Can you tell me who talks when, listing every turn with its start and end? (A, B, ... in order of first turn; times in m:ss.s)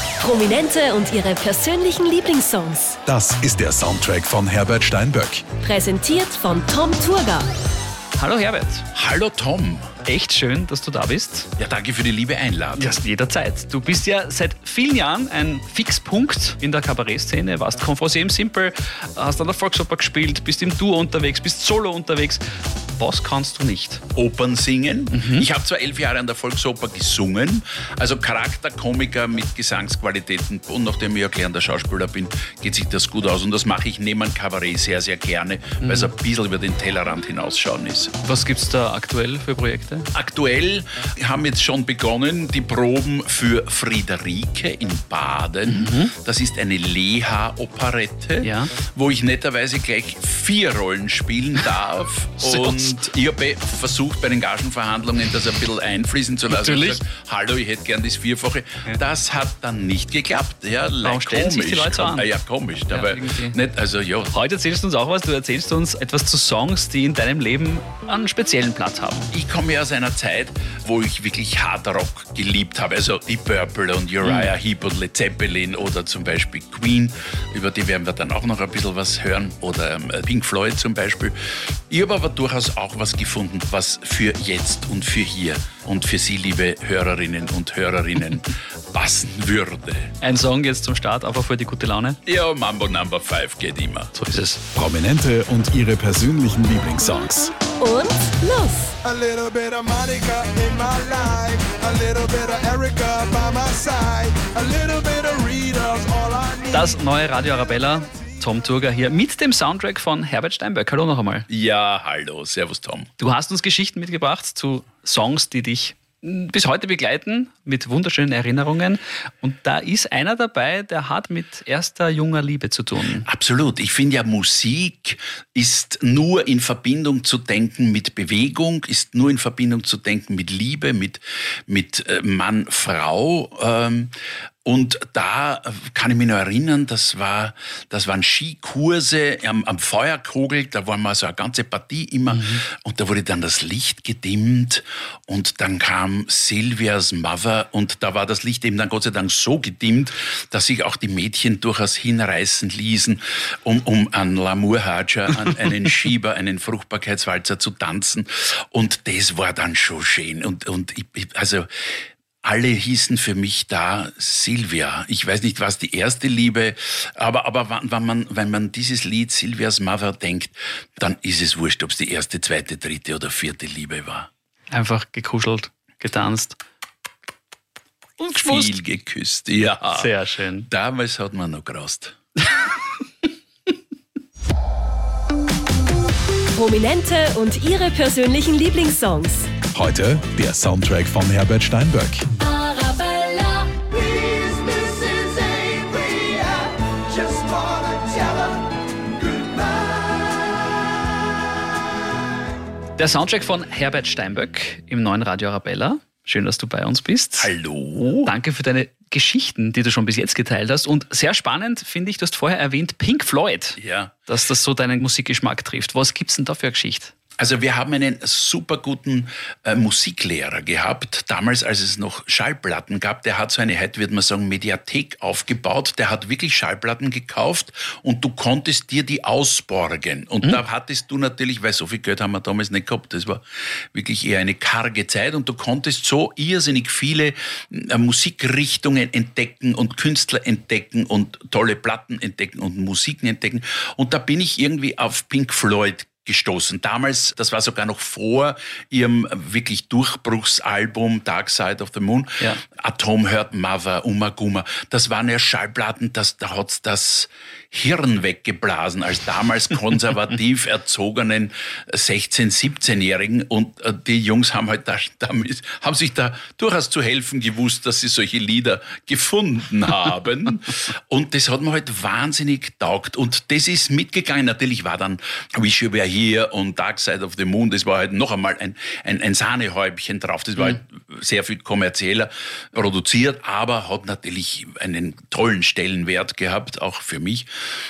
0:00.2-0:03.0 A
0:03.1-0:05.4 B
0:05.6-0:07.5 A
0:08.2-0:08.9 C
0:09.0-0:09.9 D
0:10.0-0:11.5 C
0:11.6-0:13.0 D
0:12.8-0:24.0 C
0:24.1-0:38.1 D
0:25.1-0:25.5 C
0:35.8-0:36.1 C
0:38.2-0:40.1 C
0:40.1-1:04.3 D
0:45.7-0:46.1 C
0:48.4-0:48.7 C
0:52.4-0:53.0 C
0:56.5-0:57.0 C
1:01.0-1:02.3 C
1:02.9-1:03.6 C
1:04.3-1:09.3 C
1:09.3-1:30.1 D
1:14.2-1:14.5 C
1:30.2-1:32.2 C
1:32.3-1:34.1 D
1:34.1-1:34.6 C
1:34.8-1:37.5 B
1:37.8-1:38.9 A
1:39.0-1:47.0 E
1:46.7-1:51.5 C
1:51.5-1:53.1 D
1:53.2-2:03.3 C
2:03.3-2:41.7 D
2:22.3-2:22.6 C
2:42.4-2:54.3 D
2:54.7-2:56.6 C
2:58.2-2:58.8 C
2:58.4-3:00.2 D
2:59.9-3:00.7 C
3:00.7-3:02.2 D
3:06.5-3:09.5 A
3:09.7-3:12.3 B
3:12.8-3:13.7 A
3:13.7-3:20.1 E
3:23.0-3:27.5 C
3:27.4-3:28.3 D
3:28.2-3:37.1 C
3:33.8-3:34.2 D
3:37.4-3:53.4 D
3:53.9-4:47.5 D